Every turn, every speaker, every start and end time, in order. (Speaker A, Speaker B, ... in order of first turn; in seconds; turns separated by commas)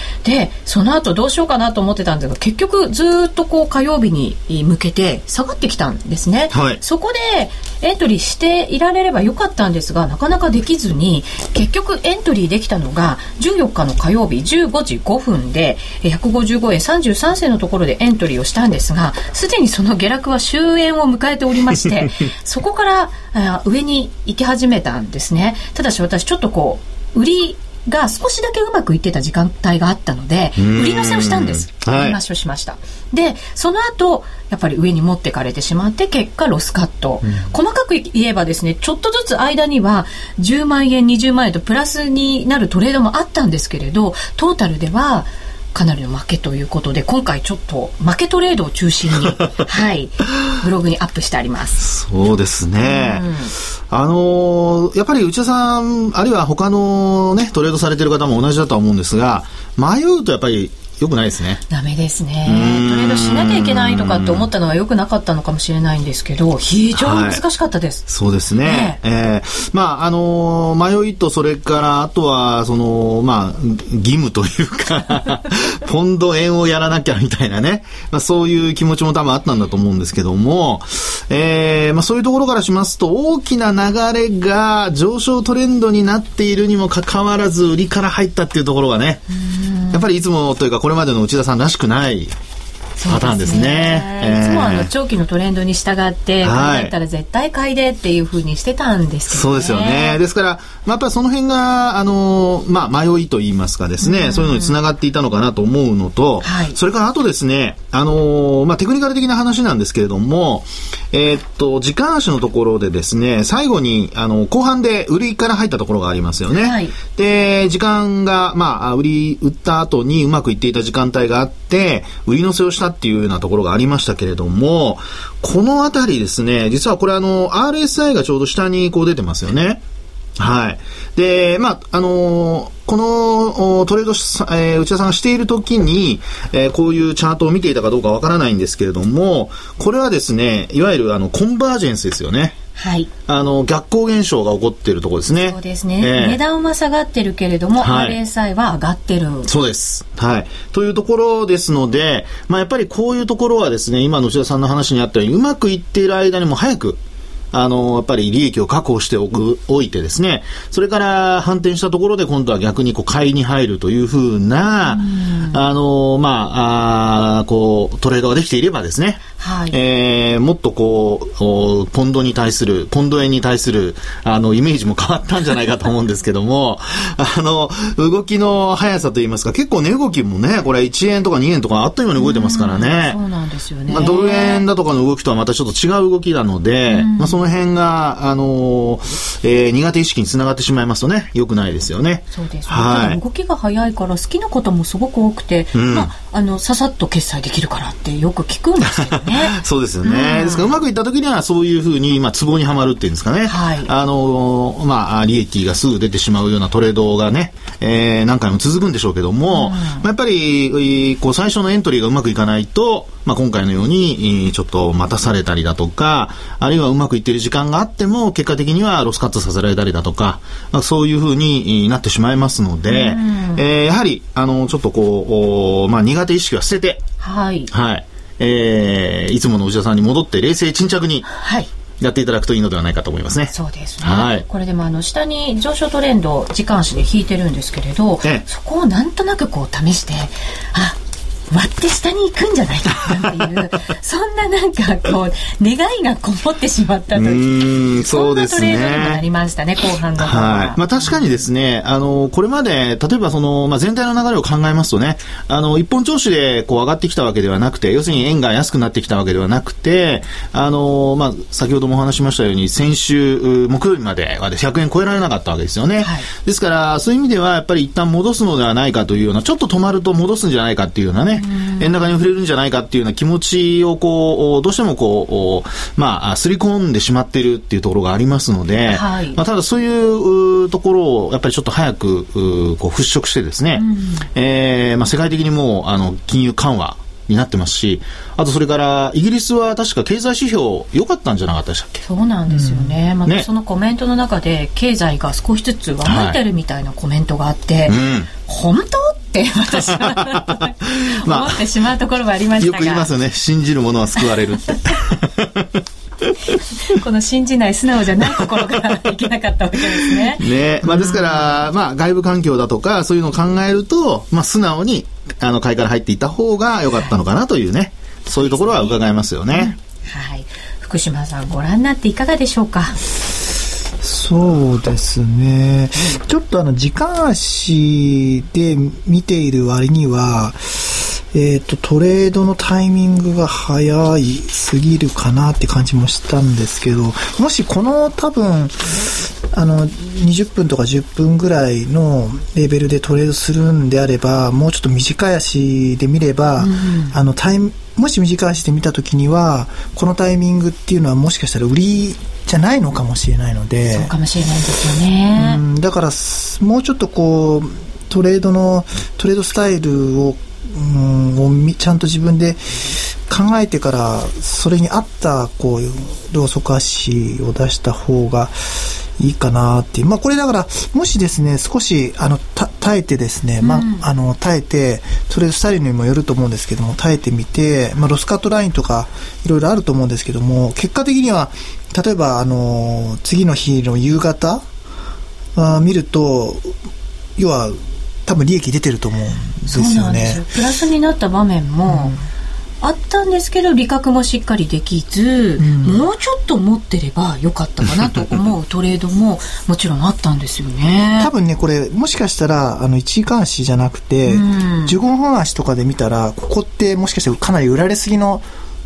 Speaker A: 0.2-51.9, Speaker B: 6.5-6.8, Speaker B: 30.6-32.2, Speaker B: 51.8-53.3, Speaker A: 52.8-53.5, Speaker B: 53.9-61.6, Speaker A: 61.7-68.1, Speaker B: 62.5-64.5, Speaker B: 67.0-67.4, Speaker B: 68.1-89.3, Speaker A: 68.6-69.0, Speaker A: 89.3-90.0, Speaker B: 89.9-92.3, Speaker A: 93.0-100.2, Speaker B: 93.1-94.9, Speaker B: 96.4-96.9, Speaker B: 99.3-129.8, Speaker A: 104.0-104.8, Speaker A: 106.4-106.8, Speaker A: 116.6-117.0, Speaker B: 130.4-142.6, Speaker A: 142.8-143.1, Speaker B: 143.3-146.4, Speaker A: 145.4-149.5, Speaker B: 147.8-148.2, Speaker B: 149.5-157.0, Speaker B: 157.5-183.2, Speaker A: 164.9-165.6, Speaker A: 169.4-169.8, Speaker A: 182.2-184.7, Speaker B: 183.9-193.2, Speaker A: 186.9-187.4, Speaker A: 192.3-200.8, Speaker B: 195.7-196.1, Speaker B: 199.2-227.0, Speaker A: 203.5-203.9, Speaker A: 209.5-210.1, Speaker A: 222.9-223.6, Speaker A: 227.2-227.7, Speaker B: 227.7-231.3, Speaker A: 231.3-231.7, Speaker B: 232.0-234.4, Speaker A: 233.5-241.0, Speaker A: 241.5-251.4, Speaker B: 247.2-249.2, Speaker B: 250.2-292.1, Speaker A: 266.0-266.3, Speaker A: 271.4-272.1, Speaker A: 278.9-279.4, Speaker A: 283.8-284.3, Speaker A: 292.1-303.1, Speaker C: 292.5-292.9, Speaker B: 296.0-296.4, Speaker B: 297.9-298.3, Speaker B: 299.8-301.6, Speaker B: 302.6-305.8, Speaker A: 306.8-311.6, Speaker B: 310.1-319.8, Speaker A: 318.3-319.0, Speaker A: 319.5-323.0, Speaker C: 324.0-354.1, Speaker A: 346.6-347.2, Speaker A: 353.9-355.6, Speaker C: 355.4-384.6, Speaker A: 373.6-374.1, Speaker C: 385.6-386.8, Speaker C: 387.4-390.5, Speaker A: 389.7-392.1, Speaker C: 391.9-392.2, Speaker A: 392.8-401.3, Speaker C: 395.6-396.1, Speaker C: 401.2-408.4, Speaker A: 404.3-405.0